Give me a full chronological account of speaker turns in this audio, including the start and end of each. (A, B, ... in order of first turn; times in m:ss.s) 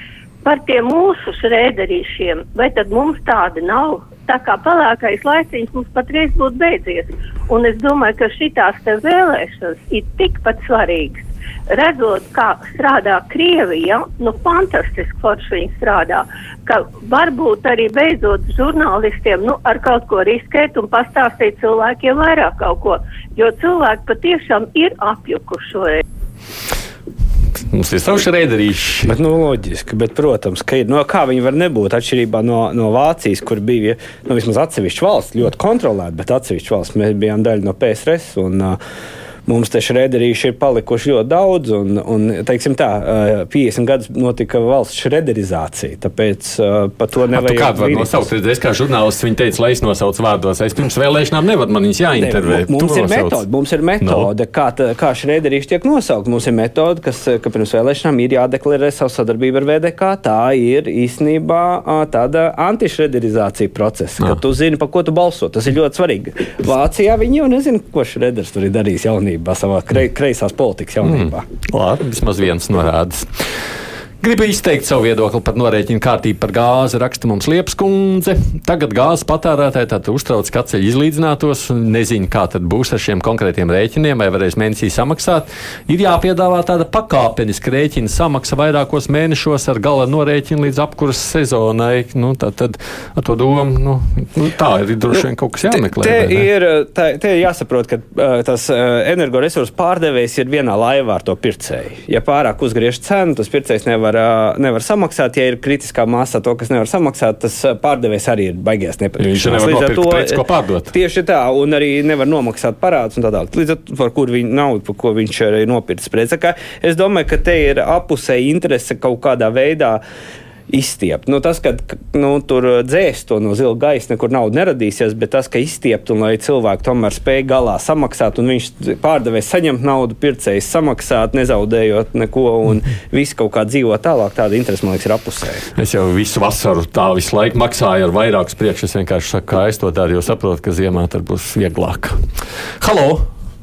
0:00.4-0:26.0 A
0:27.7-0:29.2 B
0:29.0-0:38.8 C
0:39.5-0:48.3 C
0:47.3-0:53.4 B
0:52.2-1:11.4 C
0:54.0-0:54.3 B
1:11.0-1:13.7 B
1:14.2-1:36.5 B
1:35.1-2:00.0 C
1:49.2-1:50.9 B
2:00.7-2:15.7 C
2:15.8-2:22.2 B
2:22.8-2:23.3 B